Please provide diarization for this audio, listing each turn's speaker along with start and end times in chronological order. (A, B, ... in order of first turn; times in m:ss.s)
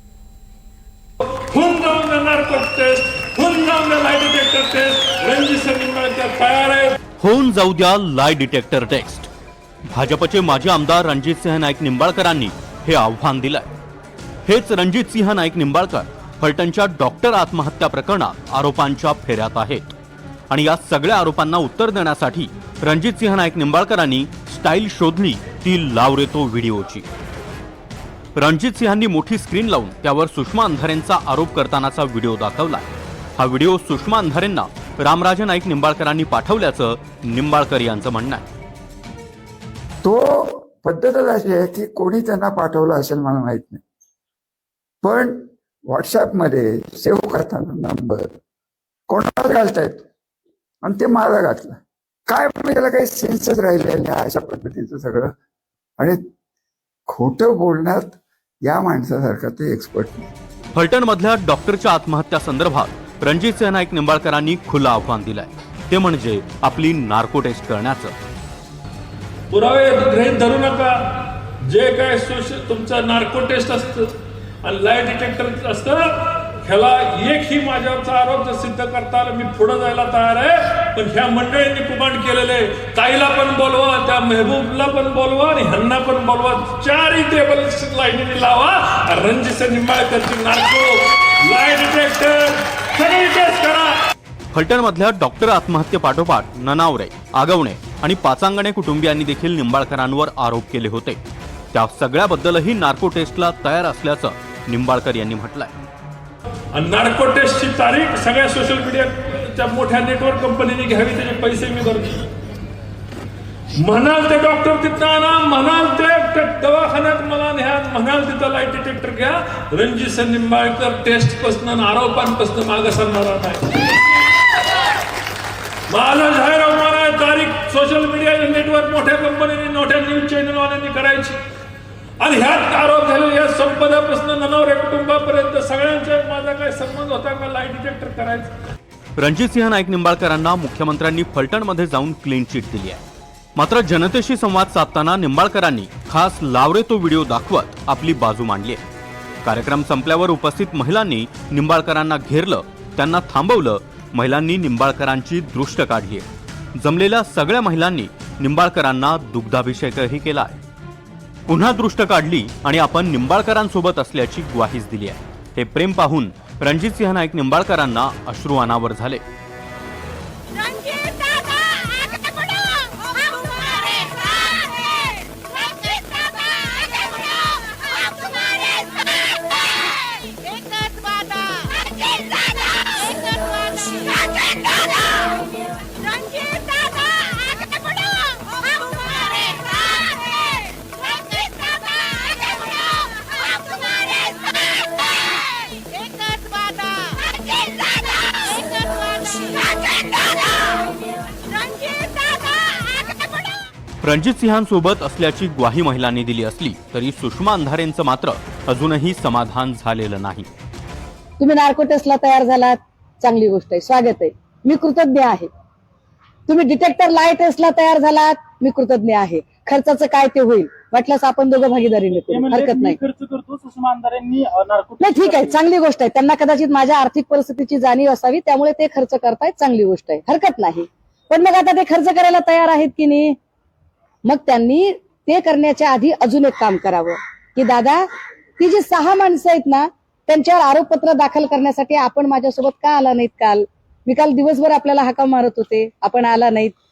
0:01.2-0:07.0 A
0:07.2-0:09.3 B
0:09.9-0:13.7 B
0:14.5-0:19.9 B
0:20.5-0:27.0 B
0:28.4-0:38.4 B
0:40.0-0:43.8 C
0:45.0-0:48.3 C
0:49.1-0:50.0 C
0:50.8-0:55.4 C
0:57.1-1:00.3 C
1:00.7-1:08.1 B
1:09.5-1:14.1 A
1:14.6-1:33.9 A
1:34.5-1:41.2 B
1:41.7-1:45.7 B
1:46.7-1:52.2 A
1:53.8-2:04.0 A
2:05.9-2:11.3 A
2:12.2-2:18.5 A
2:19.2-2:23.0 B
2:23.6-2:28.8 B
2:29.4-2:40.6 B
2:41.5-2:49.2 B
3:24.0-3:30.5 B
3:31.4-3:35.5 D
3:36.5-3:43.0 D
3:42.2-3:45.5 E
3:45.0-3:53.4 D
3:54.3-3:58.0 D
3:58.6-4:06.7 D